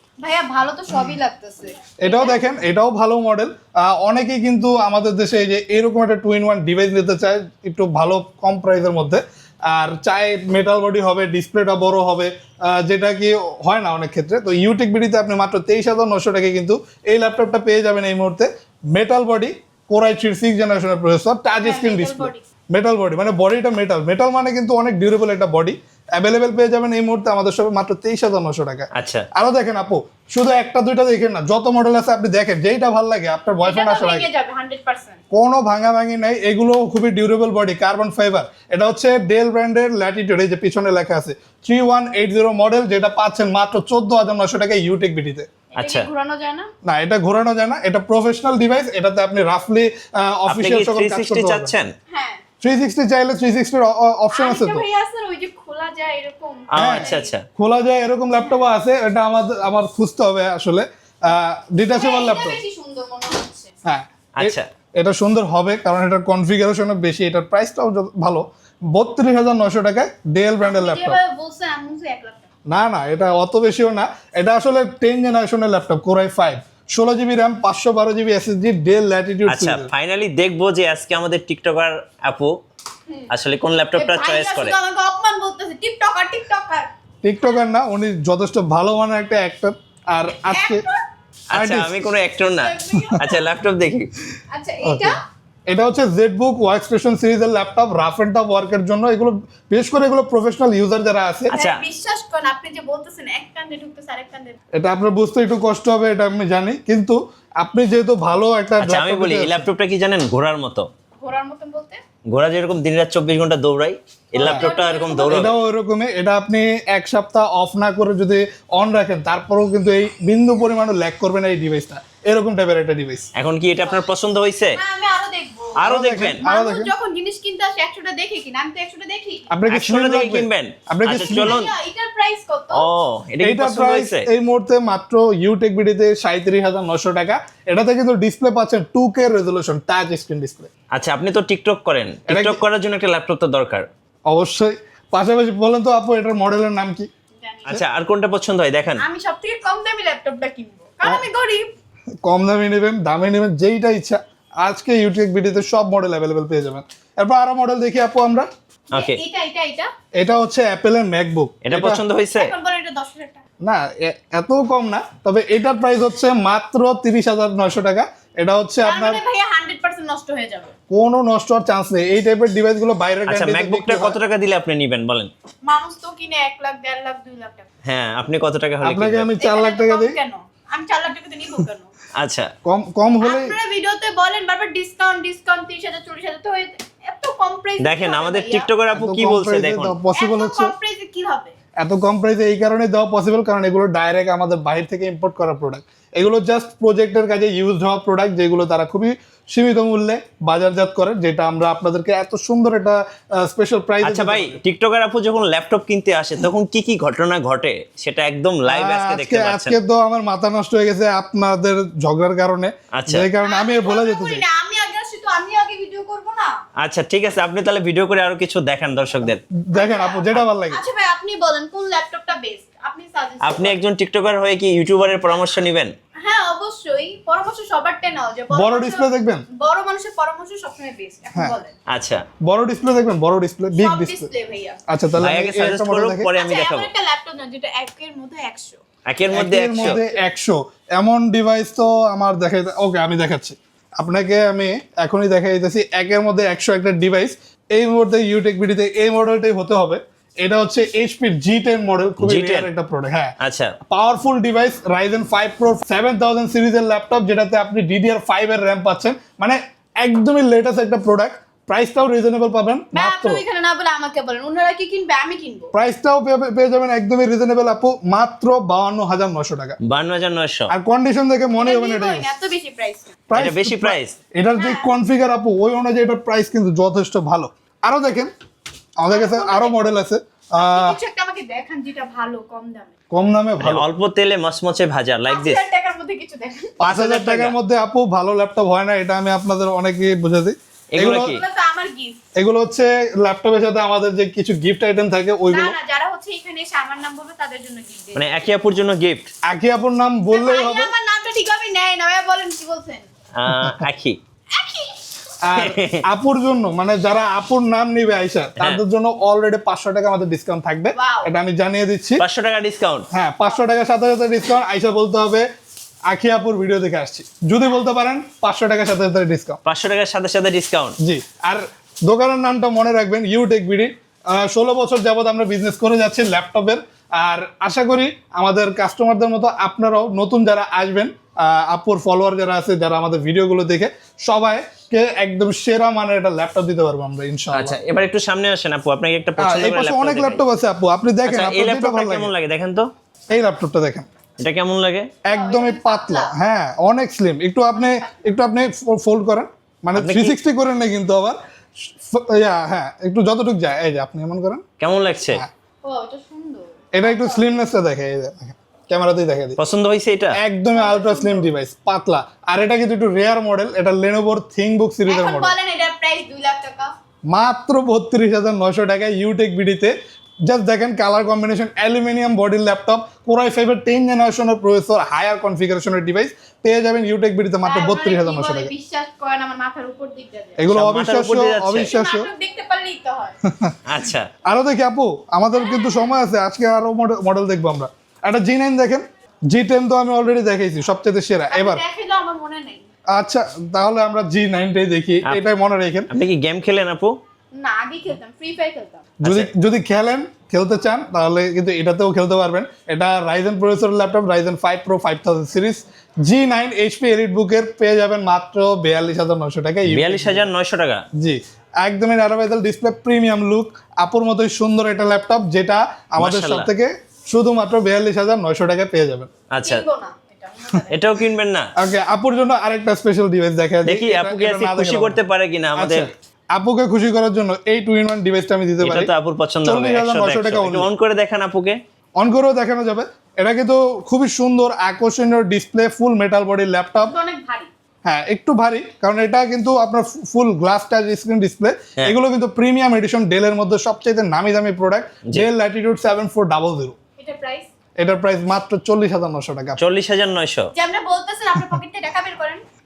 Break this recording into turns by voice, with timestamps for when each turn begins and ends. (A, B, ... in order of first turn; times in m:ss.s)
0:00.2-0:02.4 A
0:02.0-0:34.3 B
0:21.6-0:22.4 A
0:28.9-0:29.3 C
0:33.6-0:35.2 A
0:35.3-0:45.5 B
0:45.7-0:46.7 A
0:45.8-0:46.1 C
0:46.8-0:51.7 B
0:50.5-0:51.9 C
0:52.1-0:52.4 A
0:52.6-0:54.8 B
0:54.3-0:57.3 A
0:56.7-0:57.4 C
0:56.8-1:02.6 B
1:01.8-1:03.7 A
1:03.8-1:11.2 B
1:04.4-1:04.7 C
1:10.6-1:12.4 A
1:12.7-1:19.9 B
1:19.4-1:22.5 C
1:23.3-1:24.8 C
1:23.9-1:26.9 A
1:27.2-1:30.8 B
1:30.4-1:31.1 A
1:31.5-1:34.1 C
1:31.5-1:32.2 B
1:32.6-1:33.4 A
1:34.5-1:35.2 A
1:34.8-1:41.5 B
1:41.5-1:41.8 C
1:41.5-1:44.6 A
1:44.7-1:49.6 B
1:48.8-1:50.9 C
1:51.2-1:52.0 A
1:52.3-1:55.5 C
1:54.4-1:54.8 B
1:54.4-1:55.5 A
1:55.3-2:03.3 B
2:03.4-2:04.8 C
2:04.7-2:05.9 A
2:05.8-2:06.4 C
2:05.8-2:06.9 B
2:06.4-2:09.5 A
2:09.5-2:11.6 B
2:09.7-2:11.7 C
2:11.3-2:12.9 A
2:12.7-2:14.3 C
2:13.4-2:20.7 B
2:20.9-2:23.9 C
2:22.3-2:22.6 B
2:24.3-2:27.1 B
2:27.4-2:27.8 A
2:27.7-2:29.0 C
2:29.0-2:31.7 A
2:32.2-2:38.5 B
2:38.9-2:39.2 C
2:38.9-2:39.9 A
2:40.2-2:42.0 B
2:41.6-2:42.5 C
2:42.3-2:43.4 A
2:43.6-2:49.2 B
2:48.8-2:50.7 A
2:50.9-2:54.2 B
2:53.3-2:55.3 C
2:55.6-2:57.6 A
2:57.8-2:59.3 C
2:58.8-3:00.2 B
2:59.4-3:01.9 A
3:02.2-3:02.5 C
3:02.6-3:03.6 B
3:03.2-3:08.7 A
3:07.8-3:09.9 C
3:08.9-3:10.7 B
3:10.1-3:11.5 A
3:11.8-3:24.6 B
3:24.0-3:29.8 C
3:28.7-3:34.4 B
3:32.9-3:33.3 C
3:33.4-3:36.5 A
3:36.8-3:39.4 C
3:39.6-3:40.8 B
3:39.7-3:43.8 A
3:43.4-3:45.9 C
3:46.2-3:51.7 A
3:48.5-3:49.4 B
3:51.9-3:52.2 C
3:52.4-3:54.3 B
3:53.7-3:54.8 A
3:54.9-3:56.3 B
3:55.2-3:56.9 C
3:56.4-3:58.8 A
3:59.0-4:00.0 C
3:59.3-4:13.3 B
4:12.2-4:12.7 C
4:13.4-4:13.7 C
4:13.9-4:23.4 B
4:22.9-4:25.7 A
4:25.7-4:29.8 B
4:29.8-4:30.7 C
4:30.7-4:32.3 B
4:31.6-4:33.1 A
4:33.3-4:38.3 B
4:33.3-4:34.2 C
4:34.5-4:34.9 A
4:39.0-4:41.0 B
4:39.1-4:40.0 A
4:40.5-4:42.9 A
4:43.1-4:43.8 B
4:43.6-4:45.6 C
4:45.3-4:46.8 A
4:46.8-4:51.3 B
4:46.8-4:47.6 C
4:50.9-4:51.4 C
4:51.1-4:52.2 A
4:52.3-4:55.8 B
4:55.5-4:58.2 A
4:58.1-4:59.3 C
4:59.5-5:00.9 B
5:00.3-5:03.1 A
5:03.3-5:04.2 C
5:04.5-5:05.0 A
5:05.4-5:12.2 B
5:05.5-5:06.0 C
5:10.9-5:11.3 A
5:12.2-5:13.1 C
5:13.1-5:15.5 B
5:16.1-5:19.6 B
5:19.6-5:21.0 C
5:21.0-5:37.8 B
5:37.5-5:40.4 C
5:39.4-5:42.3 B
5:41.2-5:42.9 C
5:43.3-5:44.1 B
5:44.4-5:45.1 C
5:45.2-5:54.6 B
5:45.3-5:46.3 A
5:47.8-5:48.0 A
5:49.9-5:50.4 C
5:54.8-5:55.4 C
5:55.8-5:57.6 A
5:56.9-5:59.6 B
5:59.6-6:00.4 C
6:00.4-6:05.5 B
6:00.7-6:01.5 A
6:05.1-6:06.9 A
6:07.3-6:09.9 B
6:10.4-6:18.7 B
6:17.6-6:20.6 A
6:20.6-6:22.3 B
6:20.7-6:21.9 C
6:21.7-6:23.4 A
6:23.4-6:23.8 B
6:23.8-6:24.3 C
6:24.4-6:31.8 B
6:25.5-6:26.1 A
6:31.5-6:32.8 A
6:33.1-6:36.1 B
6:36.1-6:37.2 C
6:37.5-6:39.1 A
6:39.2-6:50.4 B
6:39.2-6:39.5 C
6:49.8-6:51.0 C
6:51.2-6:59.3 B
6:56.2-6:56.7 C
6:59.5-6:59.8 C
6:59.6-7:01.0 A
7:00.9-7:01.7 C
7:01.8-7:05.2 B
7:03.8-7:06.1 C
7:05.8-7:09.1 B
7:08.8-7:11.8 C
7:09.6-7:10.9 B
7:12.2-7:17.1 B
7:17.0-7:17.7 A
7:18.0-7:27.0 B
7:27.2-7:27.7 A
7:28.0-7:29.8 B
7:29.8-7:30.7 C
7:30.7-7:32.6 A